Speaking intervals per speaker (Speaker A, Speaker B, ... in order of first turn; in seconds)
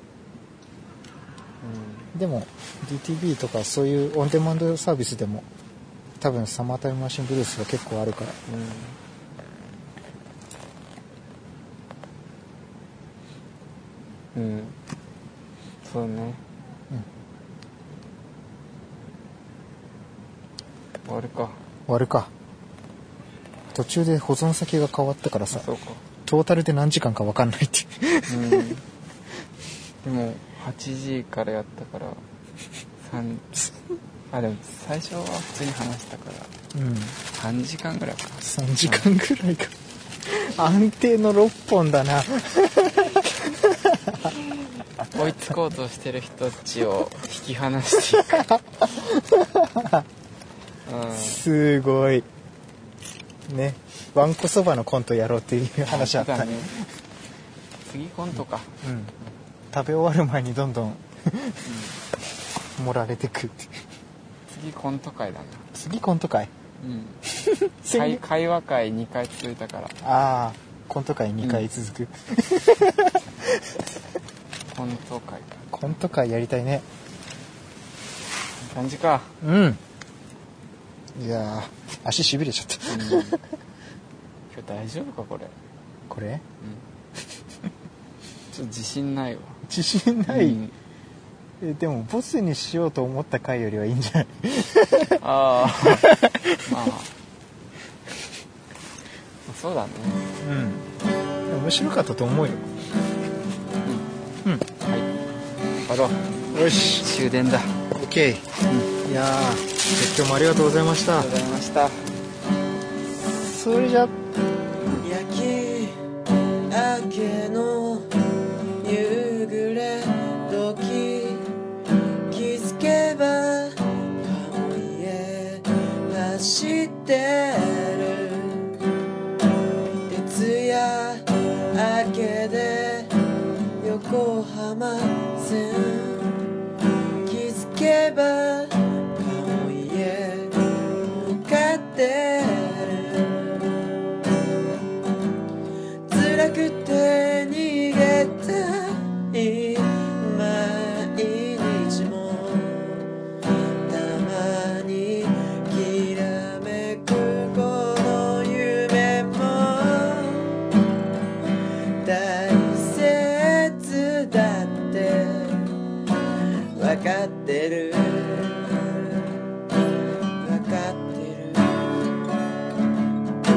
Speaker A: 1.6-2.1, 8.5-9.0, 14.3-14.8, 15.8-16.4, 21.1-21.6, 25.5-26.0, 28.3-28.8, 30.0-32.2, 33.0-33.5, 34.3-36.5, 37.3-39.1, 45.1-48.5, 50.9-51.4, 55.9-56.7, 57.9-58.7, 61.6-62.0, 64.5-65.7, 66.8-67.2, 67.9-70.0, 74.7-76.0, 78.6-79.3, 82.9-83.4, 84.5-85.5, 88.5-89.6, 90.3-90.8, 95.2-96.1, 96.7-97.1, 99.5-100.2, 105.8-107.8, 111.2-112.1
Speaker B: 2.1-5.5, 6.2-8.4, 21.9-22.3, 23.7-25.7, 26.2-28.7, 36.7-37.2, 38.4-44.4, 45.0-45.5, 48.2-50.1, 51.1-52.3, 53.5-56.9, 58.8-59.1, 59.7-61.7, 62.7-63.8, 65.7-66.5, 67.4-68.2, 70.0-73.8, 75.7-76.9, 79.4-79.8, 81.2-83.4, 86.1-86.4, 89.7-90.6, 91.6-96.8, 100.4-100.9, 101.5-102.7, 106.5-107.0, 107.9-111.3, 113.2-114.2
Speaker C: 115.0-116.0, 116.7-118.1, 118.8-121.5, 122.3-128.7, 130.1-133.1, 133.8-136.4, 137.2-143.7, 146.1-153.1, 153.9-160.6, 162.0-165.8, 166.7-169.4, 170.4-172.0